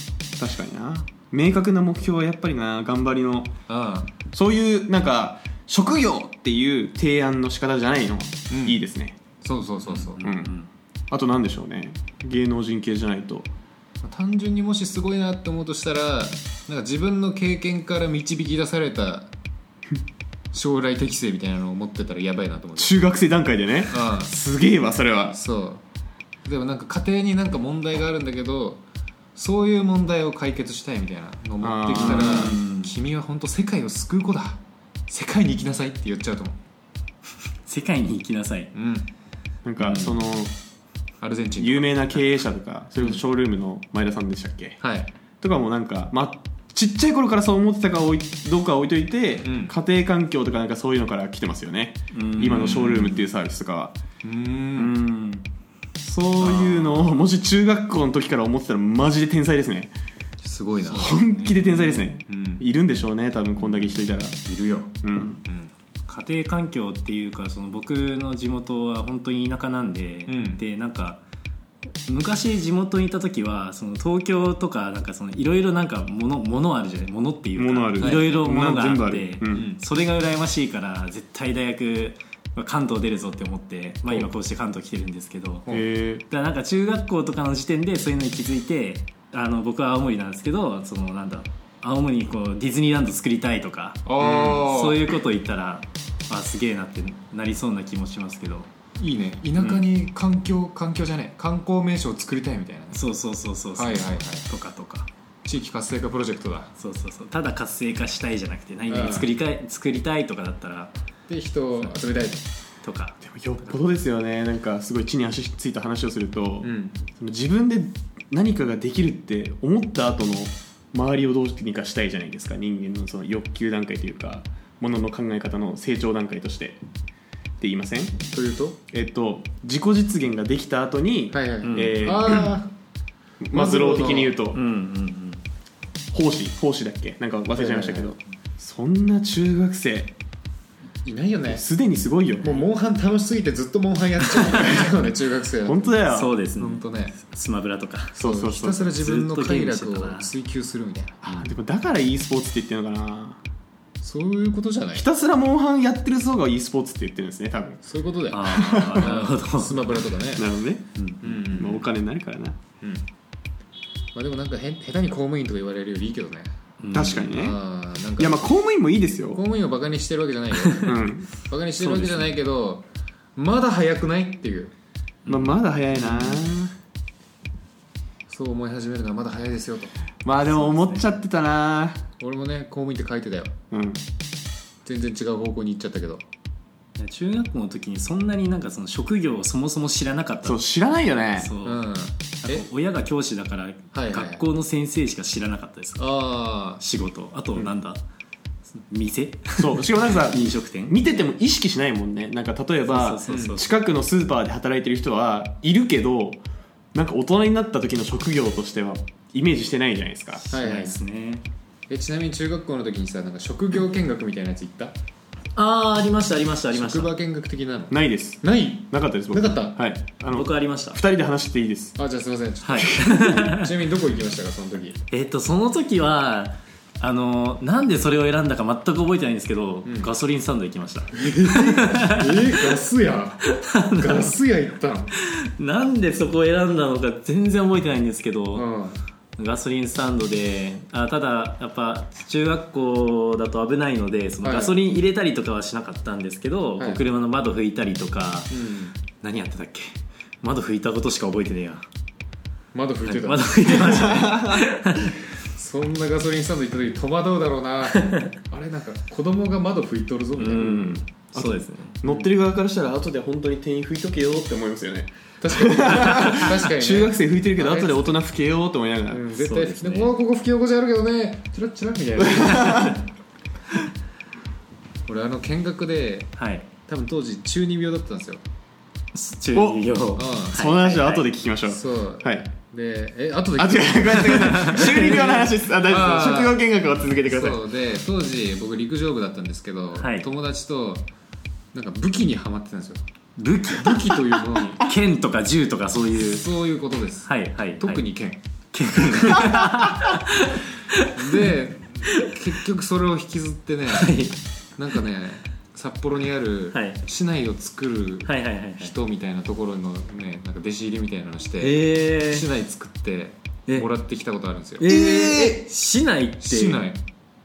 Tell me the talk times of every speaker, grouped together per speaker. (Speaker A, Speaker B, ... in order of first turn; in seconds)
Speaker A: 0.4-3.5, 4.3-9.2, 10.2-10.5, 11.1-13.5, 22.8-25.4, 31.6-32.6, 39.6-40.5, 41.6-44.8, 45.4-53.9, 56.0-59.9, 60.9-64.4, 65.0-65.4, 77.6-79.6, 85.7-86.2, 113.2-126.8, 127.6-128.2, 128.9-132.6, 133.4-134.6, 136.1-140.1, 141.5-142.6, 145.6-146.3, 148.2-148.9, 151.2-153.4, 154.9-157.8, 158.5-159.1, 160.3-160.9, 161.4-162.6, 166.9-167.6, 168.2-169.4, 170.8-171.3, 175.3-176.7, 180.2-182.0, 183.7-184.0, 190.4-191.5, 199.6-206.4, 206.9-210.4, 217.9-222.0, 253.9-254.6, 260.6-269.2, 272.2-272.9, 279.5-279.8, 280.5-282.4, 283.6-287.6, 314.8-315.6
Speaker B: 3.7-4.1, 8.5-8.8, 9.4-10.2, 14.0-19.3, 20.5-22.9, 23.8-24.3, 25.3-25.8, 26.4-28.8, 29.4-36.6, 38.7-39.1, 41.2-42.3, 44.8-45.1, 49.4-49.7, 54.2-54.9, 60.4-61.1, 62.2-62.6, 64.4-65.7, 70.3-70.6, 78.0-78.3, 79.5-79.8, 94.0-95.0, 99.0-103.0, 103.8-104.5, 105.4-106.7, 108.9-109.3, 111.3-112.4, 116.6-116.9, 128.3-128.8, 131.3-132.7, 133.5-134.3, 137.5-138.2, 141.0-141.6, 142.4-146.0, 146.6-147.2, 148.2-151.2, 154.0-155.0, 157.8-160.5, 161.2-161.8, 164.1-166.5, 167.3-168.4, 169.3-174.7, 178.3-179.9, 182.2-183.5, 184.8-186.2, 191.6-192.7, 193.9-194.4, 196.0-196.8, 203.3-203.6, 210.5-211.0, 211.9-214.9, 216.7-219.8, 221.9-225.0, 229.8-230.1, 231.2-235.1, 238.5-239.0, 244.4-244.8, 246.8-247.0, 248.5-248.9, 252.7-254.2, 255.4-260.7, 265.4-268.2, 269.1-273.0, 275.1-276.3, 276.9-278.4, 280.1-280.6, 281.6-286.6, 287.3-291.1, 291.7-293.0, 293.6-294.8, 296.2-298.4, 301.1-304.1, 304.8-314.9, 316.4-317.0
Speaker C: 9.8-10.7, 32.0-32.9, 37.7-38.7, 39.8-40.2, 52.1-53.2, 54.8-55.4, 56.4-57.2, 60.9-62.1, 66.1-71.2, 72.1-85.7, 86.3-98.7, 99.6-99.8, 102.9-105.1, 106.8-110.9, 112.8-113.2, 131.7-132.1, 134.5-135.4, 146.1-148.2, 148.9-150.3, 158.3-160.0, 160.9-161.5, 166.8-167.3, 171.8-172.3, 175.2-176.5, 180.6-180.9, 187.0-190.6, 191.4-191.8, 192.4-196.1, 196.7-198.0, 198.8-201.2, 202.9-203.7, 210.4-211.4, 215.6-217.1, 220.3-221.0, 222.6-223.7, 225.1-232.7, 233.6-234.3, 235.6-238.7, 239.4-248.5, 249.0-249.9, 250.4-251.8, 253.0-255.1, 260.4-262.0, 269.3-270.1, 276.4-276.6, 279.1-281.2, 284.2-285.4, 290.0-290.2, 293.4-296.4, 297.2-298.0, 298.7-301.5, 303.9-304.4, 306.7-307.0, 308.2-308.9, 311.6-312.4, 314.8-316.8